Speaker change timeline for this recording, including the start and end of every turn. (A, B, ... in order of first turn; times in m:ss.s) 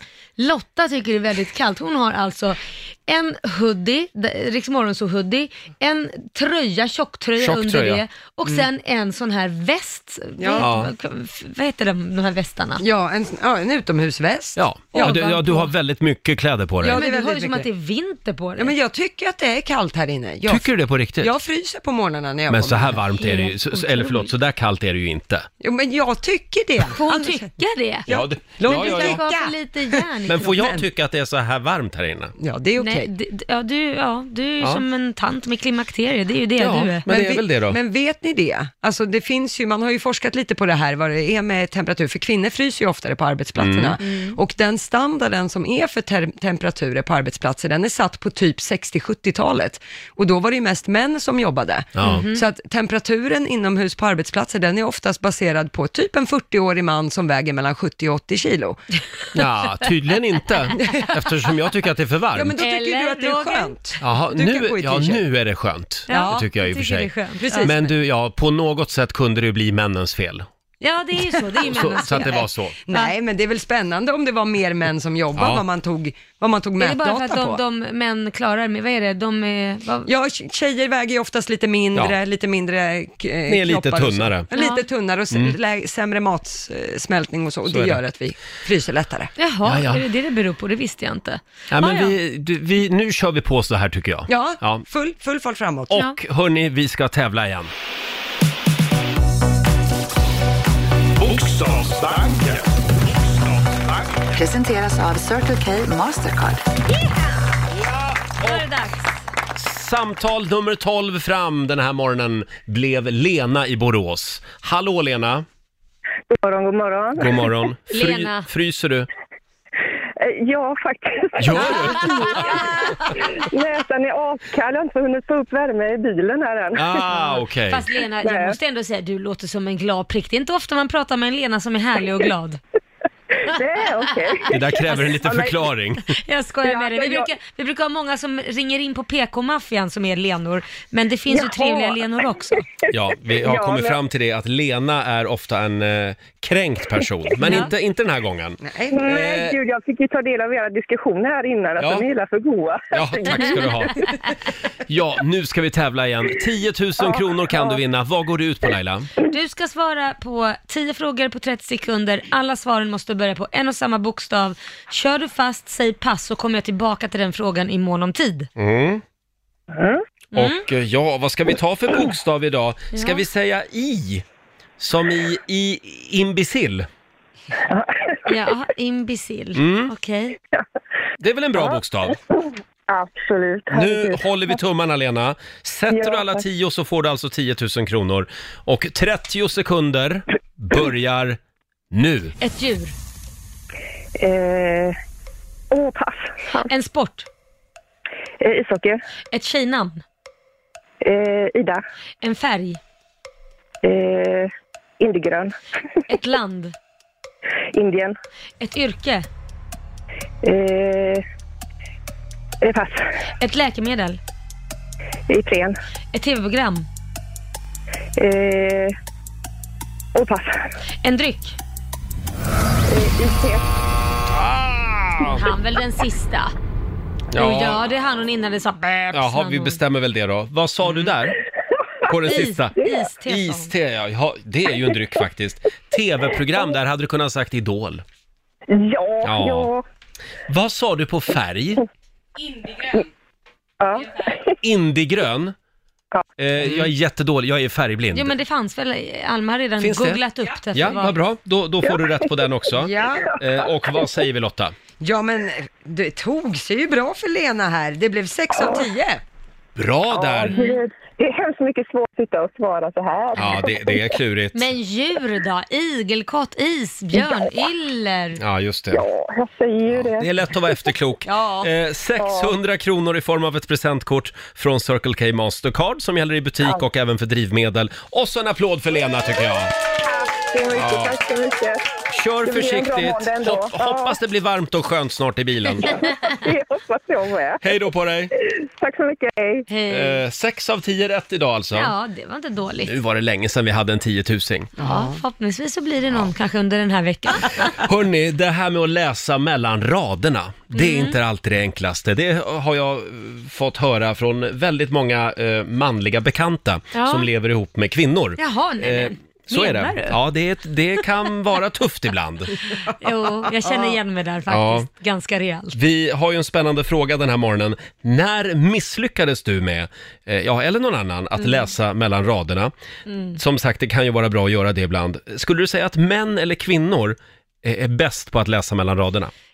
0:00.4-0:12.8 A
0:07.4-0:08.0 B
0:10.4-0:10.7 C
0:10.6-0:10.9 B
0:12.8-0:15.3 C
0:14.6-0:17.0 B
0:14.9-0:15.7 A
0:16.8-0:17.7 C
0:16.8-0:18.7 A
0:18.6-0:23.0 C
0:20.5-0:21.3 B
0:22.5-0:25.5 B
0:23.2-0:24.3 A
0:25.6-0:27.5 C
0:26.9-0:28.1 A
0:28.1-0:30.0 C
0:28.1-0:29.2 B
0:28.6-0:30.6 A
0:30.3-0:32.3 B
0:30.6-0:30.8 C
0:32.4-0:33.1 C
0:32.8-0:37.0 A
0:36.6-0:37.8 B
0:37.1-0:58.8 C
0:43.6-0:44.0 B
0:44.0-0:44.4 A
0:52.0-0:52.3 B
0:52.0-0:52.4 A
0:59.3-1:02.5 B
1:00.8-1:01.1 C
1:02.3-1:05.2 C
1:02.6-1:03.7 A
1:04.0-1:07.1 B
1:06.1-1:06.5 C
1:06.1-1:07.7 A
1:07.4-1:07.9 C
1:07.6-1:10.4 B
1:10.8-1:13.1 A
1:11.6-1:12.7 B
1:12.9-1:17.6 C
1:15.4-1:15.6 B
1:16.8-1:20.1 A
1:20.0-1:29.3 C
1:23.5-1:24.5 B
1:24.5-1:24.8 A
1:27.7-1:28.0 B
1:29.4-1:32.1 A
1:29.6-1:30.0 B
1:31.7-1:34.8 B
1:34.3-1:35.9 C
1:35.9-1:37.7 B
1:41.2-1:44.3 D
1:44.3-1:46.6 E
1:47.9-1:48.6 B
1:48.4-1:49.1 A
1:49.5-1:55.4 B
1:56.3-1:57.5 F
1:57.2-1:59.1 B
1:57.9-1:58.5 A
2:00.2-2:07.0 F
2:01.4-2:02.6 B
2:01.6-2:02.4 A
2:06.7-2:07.8 B
2:07.1-2:12.6 A
2:08.2-2:08.6 F
2:13.4-2:15.6 F
2:14.5-2:16.1 B
2:16.1-2:22.6 A
2:16.6-2:17.3 F
2:21.3-2:22.0 F
2:22.9-2:29.6 B
2:23.3-2:24.0 F
2:27.4-2:27.7 A
2:28.6-2:29.0 C
2:28.9-2:34.2 F
2:31.8-2:32.0 B
2:32.9-2:34.0 B
2:34.9-2:39.1 B
2:39.2-2:48.5 A
2:48.6-2:49.0 B
2:49.7-2:50.0 F
2:50.3-2:50.6 A
2:50.3-2:54.2 B
2:52.9-2:53.2 A
2:54.8-2:56.9 B
2:57.7-2:58.2 F
2:58.2-3:00.4 A
2:59.5-2:59.9 B
3:01.2-3:02.2 B
3:02.9-3:04.2 F
3:03.7-3:11.4 B
3:05.9-3:06.4 F
3:11.9-3:12.3 B
3:12.4-3:12.9 A
3:14.2-3:15.0 F
3:15.7-3:16.7 F
3:16.6-3:17.3 A
3:18.4-3:19.0 F
3:19.3-3:20.0 A
3:21.0-3:21.8 F
3:22.2-3:22.8 A
3:23.8-3:25.5 F
3:26.1-3:26.7 A
3:27.7-3:28.1 F
3:28.6-3:29.3 A
3:30.4-3:31.2 F
3:32.6-3:33.1 F
3:33.4-3:34.2 A
3:35.3-3:35.7 F
3:36.1-3:36.9 A
3:38.2-3:38.9 F
3:40.1-3:40.6 F
3:41.0-3:41.6 A
3:42.9-3:43.6 F
3:44.3-3:45.4 B
3:45.3-3:46.5 A
3:47.3-3:47.8 B
3:47.4-3:49.8 A
3:49.1-3:51.4 B
3:52.1-3:58.0 B
3:52.2-3:53.7 A
3:58.7-3:59.8 F
3:59.2-3:59.7 B
4:00.5-4:01.8 B
4:03.8-4:04.4 F
4:04.6-4:05.5 B
4:06.4-4:08.3 B
4:08.1-4:11.2 A
4:09.8-4:10.2 B
4:10.7-4:14.7 B
4:12.7-4:13.3 C
4:15.0-4:19.2 C
4:19.8-4:20.6 B
4:20.1-4:24.1 F
4:20.5-4:20.8 A
4:23.4-4:24.7 B
4:24.5-4:28.4 A
4:27.1-4:27.5 F
4:28.4-4:29.0 B
4:28.9-4:30.3 F
4:29.9-4:39.7 B
4:31.3-4:31.6 C
4:32.2-4:32.5 F
4:40.0-4:41.8 F
4:40.7-4:41.2 B
4:42.1-4:46.0 B
4:42.4-4:44.2 F
4:45.8-4:47.8 F
4:47.6-4:48.3 B
4:48.4-4:49.7 F
4:49.7-4:50.2 A
4:49.9-4:51.9 B
4:51.7-4:52.9 A
4:52.8-4:54.7 B
4:54.8-4:55.2 C
4:54.8-4:57.7 A
4:57.7-5:12.6 B
5:00.7-5:01.2 A
5:06.9-5:07.3 A
5:08.4-5:10.2 A
5:12.8-5:15.8 A
5:14.5-5:14.8 B
5:15.7-5:22.7 B
5:23.1-5:23.4 A
5:23.4-5:29.3 B